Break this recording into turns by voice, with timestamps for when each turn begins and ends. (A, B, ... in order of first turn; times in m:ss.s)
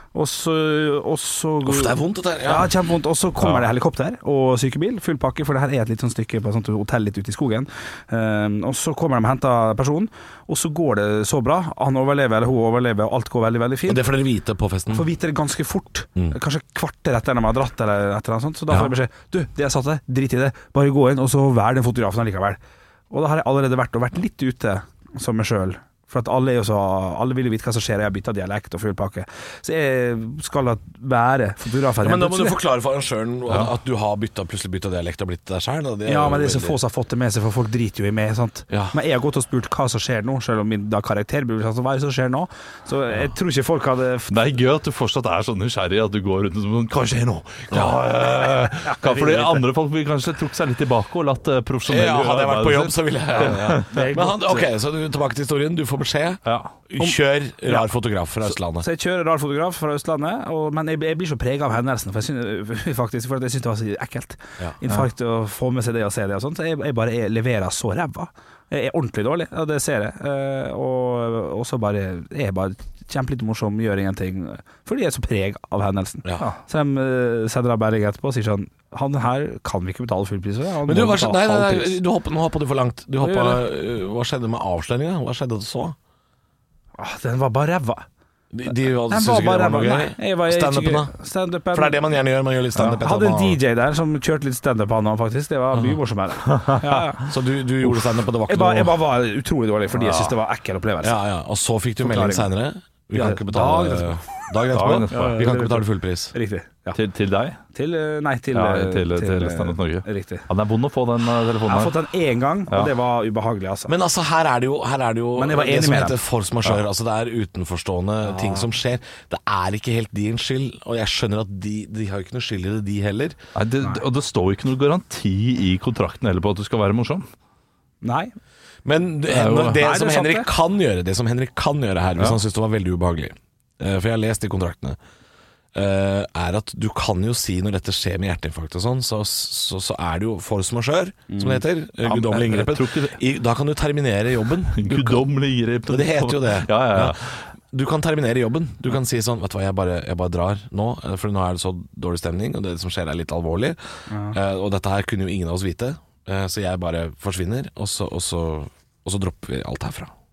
0:00.1-0:14.1 A
0:01.6-0:02.7 B
0:03.4-0:03.7 C
0:13.9-0:15.1 B
0:14.9-0:22.6 A
0:23.1-0:32.6 A
0:32.0-0:36.8 B
0:36.1-0:44.4 A
0:38.7-0:39.0 B
0:44.3-0:54.1 C
0:47.7-0:48.0 B
0:48.8-0:49.7 A
0:51.9-0:58.9 B
0:53.4-0:54.6 A
0:56.5-0:56.8 C
0:58.8-1:22.0 A
1:20.9-1:26.0 B
1:23.2-1:23.6 A
1:27.0-1:28.1 A
1:28.5-1:31.1 B
1:29.1-1:32.0 A
1:31.7-1:33.6 B
1:32.8-1:37.3 A
1:36.5-1:37.0 C
1:37.2-1:39.0 B
1:38.5-1:41.2 A
1:40.0-1:40.3 C
1:41.0-1:46.3 B
1:42.0-1:42.5 A
1:43.1-1:44.2 A
1:44.7-1:45.5 C
1:45.1-1:47.0 A
1:47.0-1:47.6 C
1:47.7-1:50.5 A
1:48.5-1:52.0 C
1:51.7-1:53.9 A
1:53.9-2:03.4 B
1:55.4-1:56.2 A
1:58.3-1:58.6 A
2:03.6-2:07.3 C
2:08.0-2:08.3 A
2:08.8-2:15.0 B
2:09.3-2:09.8 C
2:09.7-2:10.5 A
2:15.7-2:25.3 B
2:21.3-2:21.6 A
2:22.0-2:23.2 C
2:24.7-2:27.4 C
2:25.9-2:27.2 B
2:27.7-2:33.8 B
2:34.1-2:34.4 A
2:34.3-2:40.1 B